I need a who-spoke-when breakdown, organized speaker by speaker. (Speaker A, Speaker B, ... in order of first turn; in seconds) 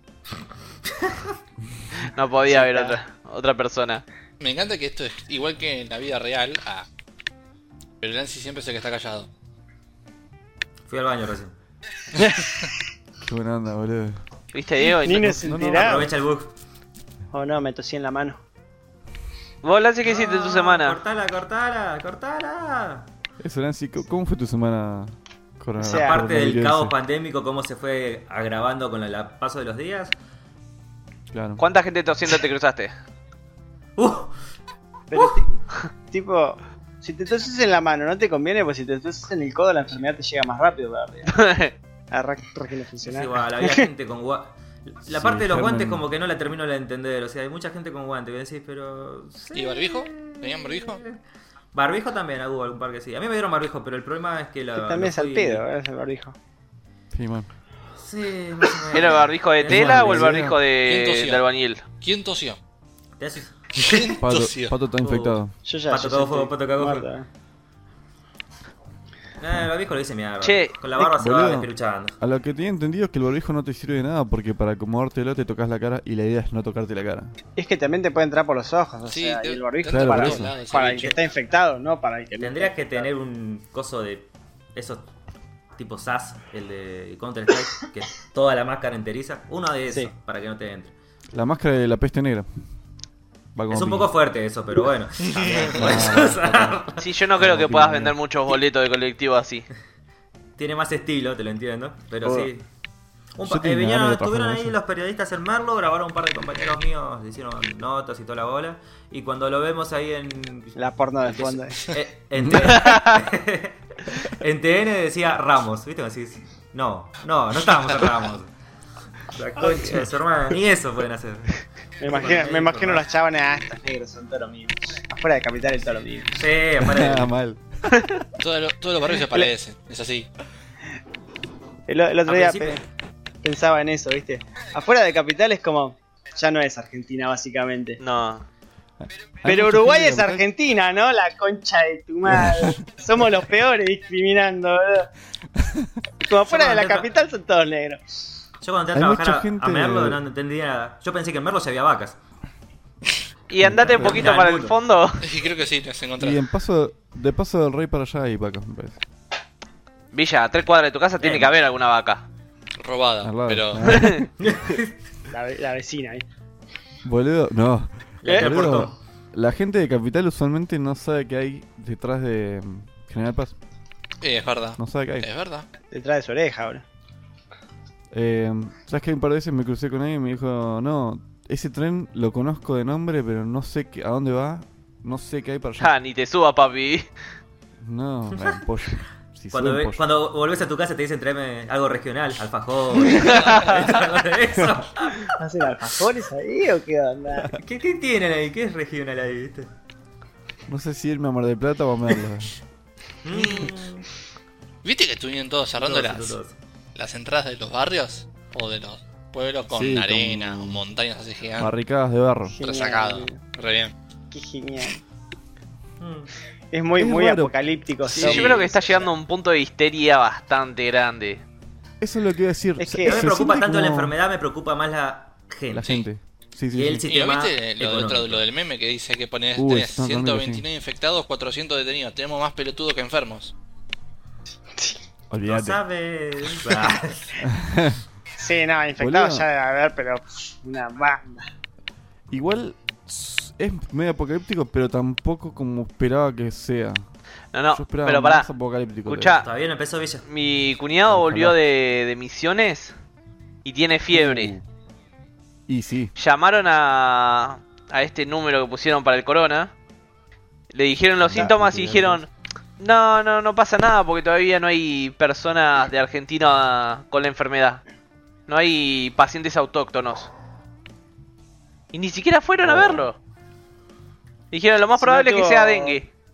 Speaker A: 2.0-4.0, 14.5-15.4, 19.6-21.0, 31.6-32.9, 41.3-41.7, 58.9-61.8, 70.4-70.8, 97.0-99.7, 138.0-138.4, 153.5-155.2, 160.1-162.3, 163.9-164.2, 185.8-187.1, 218.1-221.4, 247.5-248.5, 249.1-249.5, 250.3-252.9, 253.7-254.6, 256.2-259.7, 260.7-267.8, 268.5-270.3, 271.9-273.2, 274.5-276.1
Speaker B: 2.5-3.0, 12.2-12.6, 15.0-16.1, 17.3-18.4, 25.8-26.2, 35.1-41.5, 42.1-43.9, 54.8-56.4, 65.6-67.3, 77.6-83.1, 110.8-111.9, 119.6-120.0, 122.0-126.4, 131.9-132.8, 133.4-138.0, 139.4-145.1, 146.2-148.2, 165.3-166.2, 168.3-168.6, 175.9-176.8, 195.4-197.5, 212.5-213.4, 214.3-215.0, 216.7-219.1, 222.8-223.3, 238.4-241.4, 275.0-276.0
Speaker C: 4.4-6.9, 8.0-9.3, 49.5-51.0, 60.8-61.4, 62.0-62.6, 63.8-64.8, 79.1-81.2, 95.3-96.1, 128.4-130.3, 155.2-156.4, 162.8-164.2, 174.2-175.7, 204.8-206.4, 206.9-211.7, 212.6-213.9, 218.1-218.6, 227.1-233.5
Speaker D: 10.9-11.5, 15.7-16.5, 20.0-23.1, 25.9-30.1, 34.0-34.4, 43.0-51.2, 51.7-55.6, 58.0-60.4, 63.2-64.0, 65.0-67.1, 69.4-72.2, 82.4-85.1, 85.8-90.9, 93.7-97.1, 100.6-102.7, 103.3-110.8, 111.3-118.5, 119.3-123.0, 126.3-127.3, 132.3-132.8, 146.4-147.1, 148.6-152.2, 153.7-154.8, 161.2-161.5, 164.4-164.9, 168.2-169.0, 189.5-195.3, 197.5-199.7, 203.2-204.1, 205.8-206.6, 216.0-216.3, 223.0-226.0, 226.7-228.4, 235.4-237.4, 249.4-250.3
Speaker E: 13.2-14.2, 15.0-16.1, 23.4-26.9, 31.3-31.6, 45.1-46.0, 57.1-57.5, 59.7-60.6, 64.2-65.5, 71.0-71.7, 72.2-77.3, 79.9-80.5, 91.3-92.5, 93.5-94.1, 95.8-96.8, 97.4-98.2, 102.2-102.5, 103.4-104.8, 112.4-112.8, 126.8-127.6, 139.4-140.4, 142.3-142.7, 145.6-145.9, 148.9-150.2, 153.6-154.3, 156.2-159.0, 163.2-164.3, 167.0-173.6, 174.8-175.3, 178.1-185.9, 187.8-190.0, 197.3-197.6, 200.7-202.6, 209.7-210.8, 211.6-212.6, 217.0-217.6, 222.0-224.2, 225.7-227.1, 229.6-230.7, 235.3-235.8, 237.4-238.0, 239.0-239.5, 242.3-247.1, 247.7-249.4, 251.1-251.6, 254.1-254.6, 255.7-256.1, 261.3-262.2